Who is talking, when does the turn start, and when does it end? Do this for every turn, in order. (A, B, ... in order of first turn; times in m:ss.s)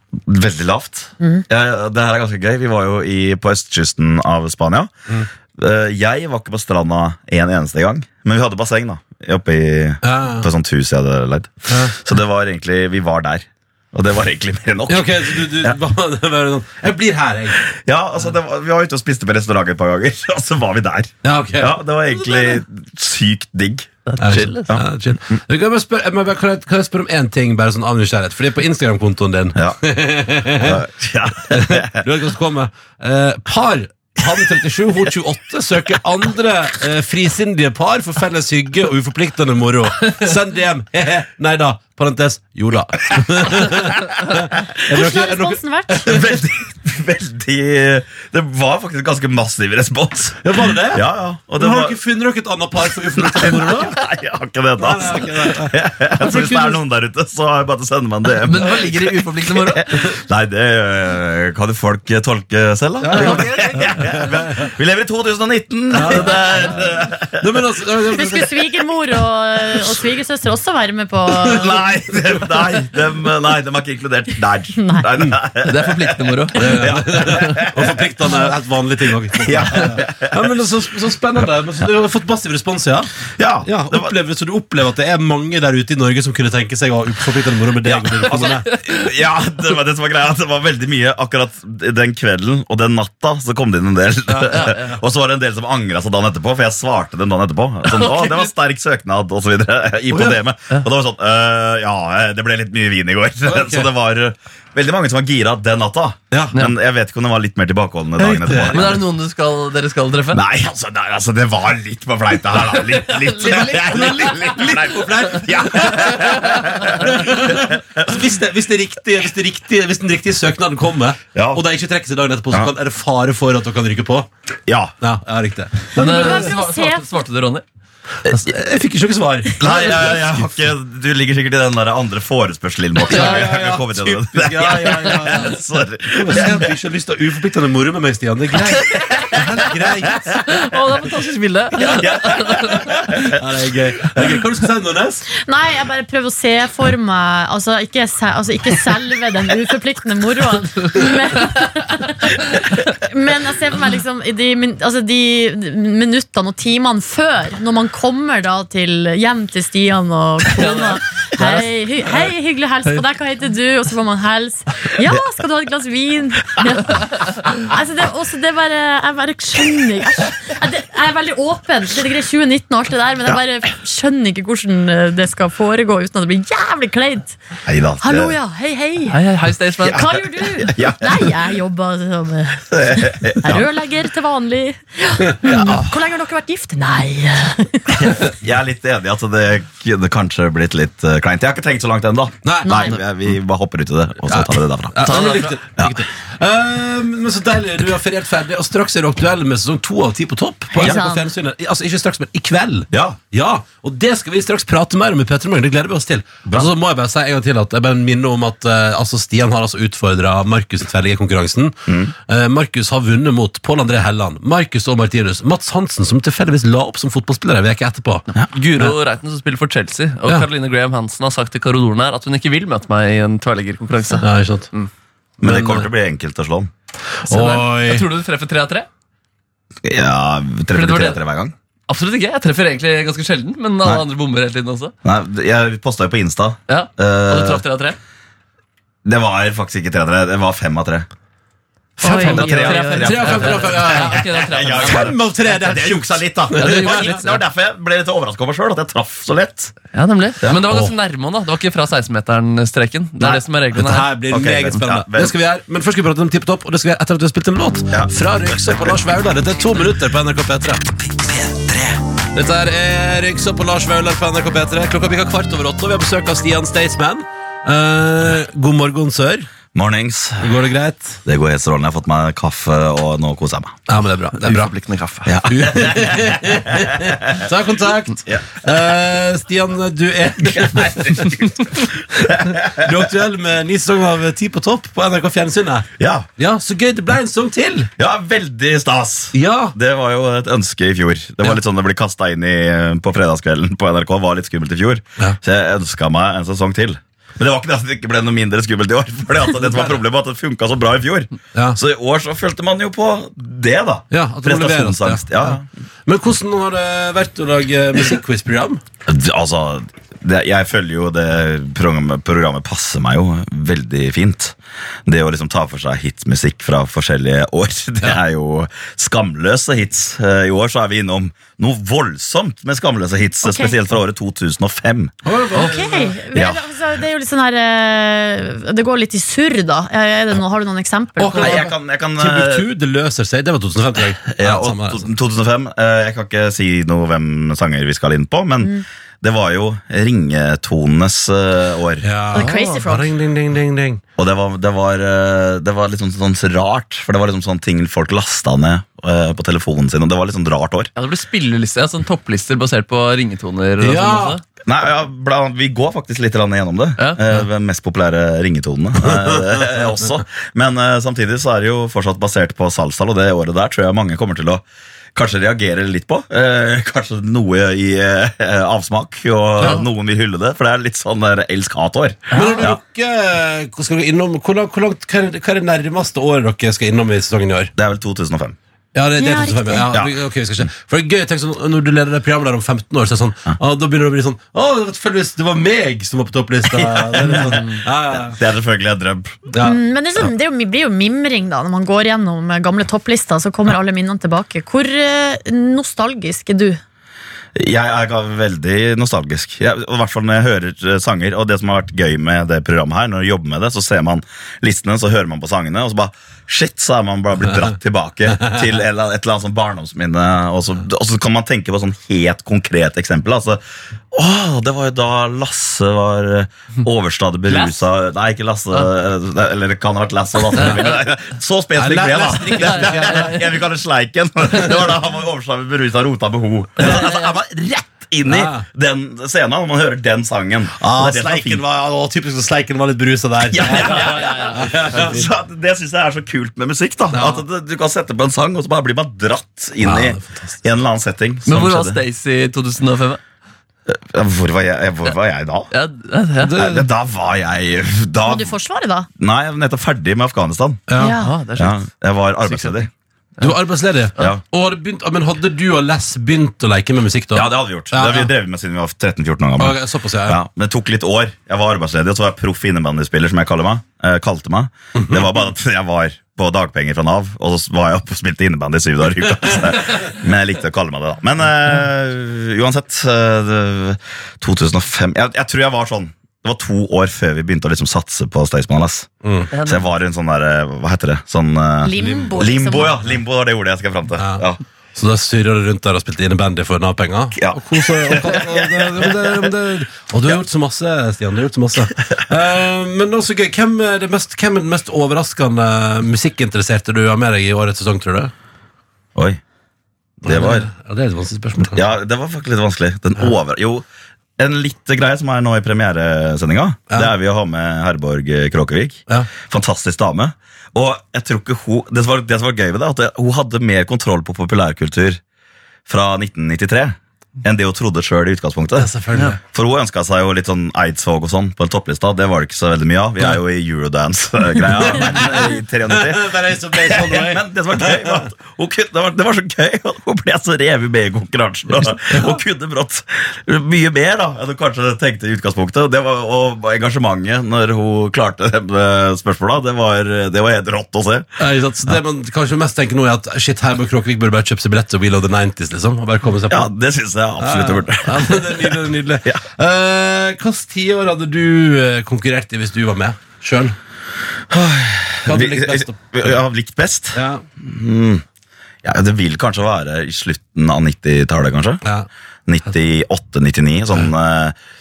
0:00.3-0:04.9 A
0:01.2-0:01.4 B
0:05.6-0:15.8 A
0:10.0-0:10.5 C
0:11.7-0:11.9 C
0:14.9-0:17.6 C
0:17.7-0:24.0 A
0:21.2-0:22.6 C
0:24.1-0:24.7 D
0:24.2-0:30.8 C
0:30.6-0:32.0 A
0:31.5-0:46.4 C
0:44.9-0:46.2 B
0:46.0-0:52.0 A
0:50.4-0:54.0 C
0:53.2-1:07.6 A
0:54.8-0:56.8 C
0:58.4-1:00.0 D
1:03.0-1:04.7 C
1:03.2-1:03.5 D
1:05.9-1:06.8 C
1:07.4-1:08.6 C
1:08.1-1:11.8 B
1:11.4-1:18.1 A
1:12.1-1:12.6 C
1:14.8-1:15.1 B
1:15.6-1:16.7 D
1:16.5-1:28.8 C
1:19.3-1:20.5 A
1:23.4-1:24.2 A
1:28.3-1:29.0 D
1:28.9-1:49.0 A
1:34.3-1:34.8 C
1:34.5-1:35.0 D
1:37.9-1:38.5 D
1:40.1-1:40.4 C
1:43.5-1:43.9 C
1:46.3-1:46.6 C
1:48.2-1:49.0 C
1:48.7-1:50.4 D
1:50.3-1:58.1 A
1:53.0-1:54.4 D
1:53.4-2:04.3 C
2:01.3-2:01.6 A
2:04.7-2:05.0 A
2:05.0-2:06.5 C
2:06.0-2:07.0 B
2:06.0-2:07.6 D
2:08.3-2:10.5 C
2:09.6-2:16.7 A
2:13.0-2:15.6 C
2:13.1-2:13.5 D
2:14.7-2:15.5 D
2:16.1-2:20.4 C
2:20.5-2:22.9 D
2:21.9-2:23.3 A
2:22.9-2:25.2 C
2:25.4-2:57.4 B
2:40.6-2:41.6 D
2:57.7-2:58.4 A
2:58.0-2:59.2 B
2:59.1-3:00.1 D
2:59.8-3:01.3 A
2:59.9-3:08.2 B
3:02.7-3:03.7 A
3:05.5-3:05.9 A
3:08.0-3:15.0 A
3:12.4-3:12.8 C
3:12.6-3:13.0 B
3:14.3-3:38.3 C
3:15.0-3:15.6 D
3:15.8-3:16.0 A
3:20.7-3:21.3 B
3:22.9-3:23.2 A
3:26.5-3:26.7 A
3:38.4-3:44.9 D
3:44.2-3:44.7 C
3:45.4-3:46.7 A
3:45.4-3:45.9 C
3:47.3-3:48.1 C
3:47.3-3:48.9 D
3:49.8-3:51.5 A
3:50.7-3:51.2 D
3:51.9-3:54.9 D
3:55.0-3:57.6 A
3:56.7-3:58.0 D
3:59.0-4:01.1 A
4:02.0-4:05.1 D
4:02.0-4:03.1 B
4:02.2-4:09.8 A
4:02.4-4:07.3 C
4:06.6-4:07.4 D
4:09.9-4:14.1 D
4:10.7-4:10.9 C
4:13.8-4:20.8 C
4:14.3-4:15.4 A
4:17.9-4:19.0 A
4:21.3-4:21.9 A
4:22.3-4:29.5 C
4:29.7-4:30.5 A
4:30.4-4:31.2 C
4:31.2-4:33.8 A
4:33.9-4:34.8 C
4:34.4-4:35.2 D
4:35.3-4:37.4 A
4:35.4-4:41.5 C
4:40.4-4:42.9 A
4:42.2-4:47.9 C
4:46.0-4:46.3 A
4:48.0-5:05.6 A
4:49.3-4:49.8 C
5:04.1-5:08.8 C
5:09.1-5:14.6 A
5:15.1-5:25.2 A
5:23.4-5:23.8 B
5:25.2-5:26.2 C
5:25.6-5:31.7 B
5:26.3-5:26.6 A
5:31.2-5:35.1 C
5:31.4-5:32.7 A
5:34.3-5:42.1 A
5:42.0-5:44.0 C
5:42.3-5:43.1 B
5:42.4-5:42.8 D
5:44.2-5:50.9 A
5:51.0-5:54.4 D
5:53.8-5:54.4 C
5:54.6-6:04.6 A
5:57.0-5:57.4 D
5:59.0-5:59.7 C
6:05.2-6:12.8 A
6:12.3-6:17.7 C
6:17.8-6:18.6 A
6:18.9-6:28.4 C
6:19.2-6:19.9 B
6:19.8-6:20.7 A
6:26.7-6:27.6 A
6:28.3-6:29.5 A
6:29.5-6:29.8 C
6:29.6-6:36.8 B
6:37.6-7:11.6 A
6:57.5-6:57.8 D
7:00.6-7:01.0 D
7:00.6-7:00.9 C
7:01.8-7:03.4 C
7:02.4-7:03.5 D
7:06.8-7:07.2 D
7:08.2-7:08.6 C
7:10.8-7:15.2 C
7:13.5-7:22.0 A
7:14.1-7:14.4 D
7:17.1-7:17.4 C
7:19.8-7:20.6 C
7:21.4-7:23.2 D
7:23.9-7:25.7 A
7:25.7-7:26.5 D
7:26.4-7:26.9 C
7:26.6-7:28.5 A
7:28.2-7:29.1 B
7:29.2-7:30.8 A
7:30.9-7:31.2 C
7:31.0-7:31.3 B
7:31.2-7:31.8 D
7:31.6-7:32.9 A
7:32.4-7:32.9 D
7:33.4-7:38.3 C
7:37.3-8:04.6 A
7:39.6-7:40.4 C
7:45.0-7:45.3 C
7:59.2-7:59.5 C
7:59.5-7:59.8 D
8:01.8-8:03.0 B
8:02.0-8:02.4 C
8:04.2-8:18.3 C
8:07.4-8:09.5 A
8:19.2-8:19.4 A
8:20.2-8:21.9 C
8:20.2-8:20.7 A
8:21.6-8:23.8 A
8:24.4-8:35.2 A
8:35.9-8:38.9 A
8:38.8-8:39.4 C
8:39.5-9:02.0 A
8:44.6-8:48.3 C
8:51.8-8:52.4 C
9:01.4-9:06.7 C
9:06.5-9:09.4 A
9:07.4-9:13.8 C
9:14.5-9:18.2 A
9:15.2-9:16.3 C
9:17.1-9:17.4 C
9:18.8-9:21.8 A
9:22.5-9:24.6 A